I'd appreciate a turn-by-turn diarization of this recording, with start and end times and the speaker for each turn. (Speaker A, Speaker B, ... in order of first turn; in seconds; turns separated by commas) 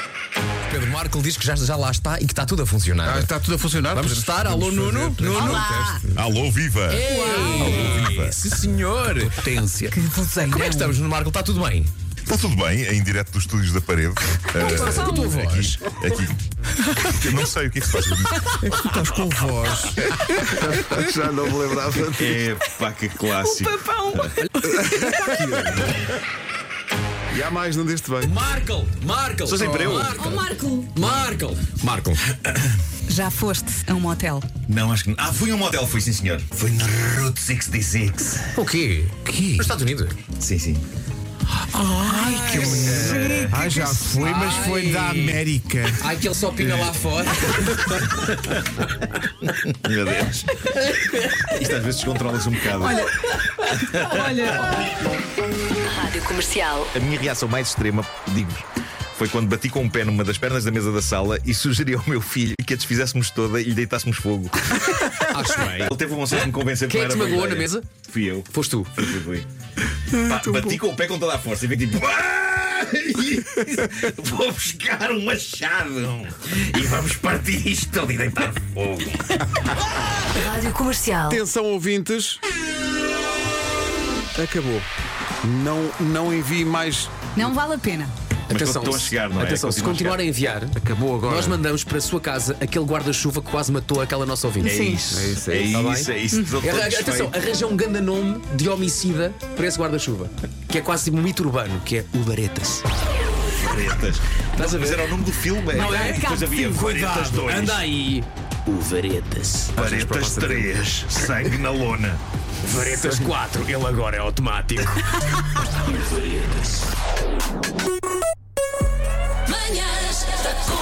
Speaker A: 0.7-3.3, Speaker B: 3.0-6.0, Speaker A: 3.9-6.0, Speaker C: 5.4-5.9, Speaker D: 6.2-7.0, Speaker A: 6.9-9.5, Speaker C: 7.1-8.0, Speaker D: 7.6-8.2, Speaker B: 9.3-10.0, Speaker C: 9.9-11.0, Speaker A: 10.5-11.9, Speaker D: 12.3-16.4, Speaker E: 14.6-14.9, Speaker A: 14.6-15.8, Speaker D: 17.1-18.8, Speaker B: 18.6-22.4, Speaker E: 22.2-24.3, Speaker C: 23.3-24.3, Speaker A: 24.4-25.9, Speaker B: 24.6-26.1, Speaker B: 27.3-28.4, Speaker A: 28.2-32.2, Speaker E: 29.5-30.5, Speaker B: 29.6-30.0, Speaker C: 33.1-34.5, Speaker E: 34.7-38.5, Speaker A: 38.5-40.2, Speaker B: 39.2-39.7, Speaker E: 40.4-40.8, Speaker A: 41.7-45.4, Speaker B: 42.0-46.1, Speaker E: 42.6-43.7, Speaker C: 43.5-43.9, Speaker A: 46.0-48.3, Speaker E: 48.1-48.6, Speaker E: 49.6-50.5, Speaker A: 51.0-51.5, Speaker E: 51.5-54.5, Speaker C: 52.8-53.1, Speaker C: 53.7-54.8, Speaker F: 55.9-56.9, Speaker E: 56.9-58.6, Speaker E: 59.2-64.8, Speaker A: 65.0-67.9, Speaker E: 65.8-69.5, Speaker A: 68.5-69.0, Speaker B: 70.0-70.8, Speaker E: 70.1-79.4, Speaker F: 80.4-81.4, Speaker B: 81.3-82.4, Speaker B: 84.3-84.9, Speaker B: 85.4-87.5, Speaker C: 87.3-88.1, Speaker E: 88.5-90.2, Speaker A: 88.5-94.8, Speaker B: 90.8-91.6, Speaker C: 94.6-95.0, Speaker E: 94.6-97.3, Speaker B: 95.1-95.8, Speaker A: 95.7-102.8, Speaker C: 96.3-96.6, Speaker E: 103.6-107.8, Speaker A: 104.6-109.7, Speaker C: 105.7-107.0, Speaker B: 109.8-110.9, Speaker E: 109.8-112.2, Speaker A: 112.6-115.0, Speaker B: 112.9-113.3